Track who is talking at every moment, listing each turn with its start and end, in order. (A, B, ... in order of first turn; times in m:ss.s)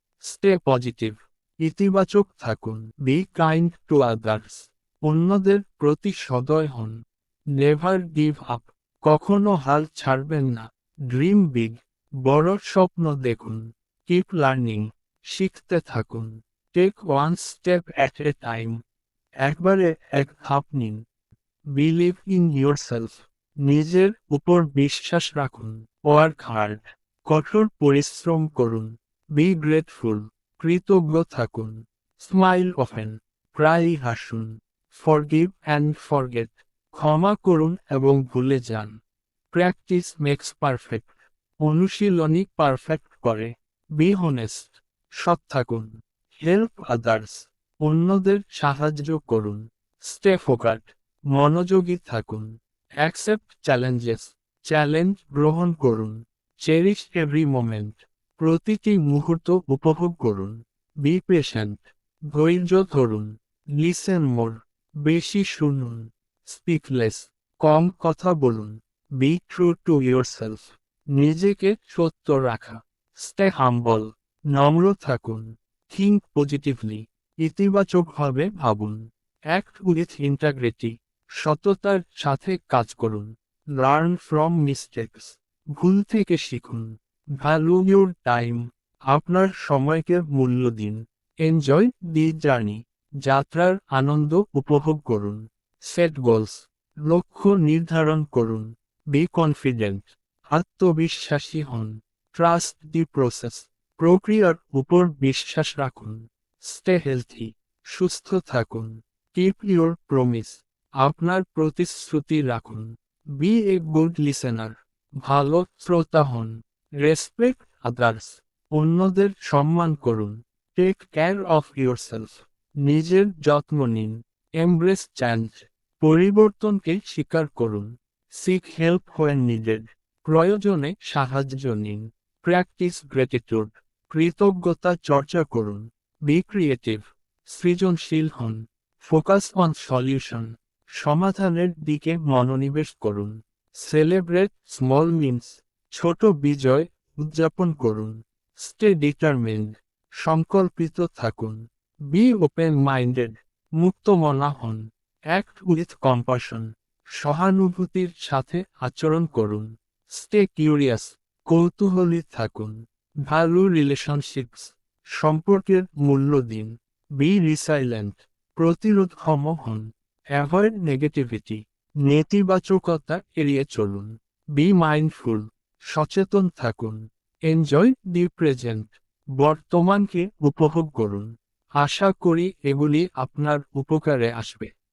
0:00.2-0:06.9 A
0:07.6-0:18.8 A
0:19.4-0:21.0 A
0:21.7-0:39.0 A
0:39.5-0:52.5 A
0:53.0-2:20.5 A
2:21.0-2:34.8 A
2:35.3-2:42.8 A
2:43.3-2:49.8 A
2:50.4-3:04.7 A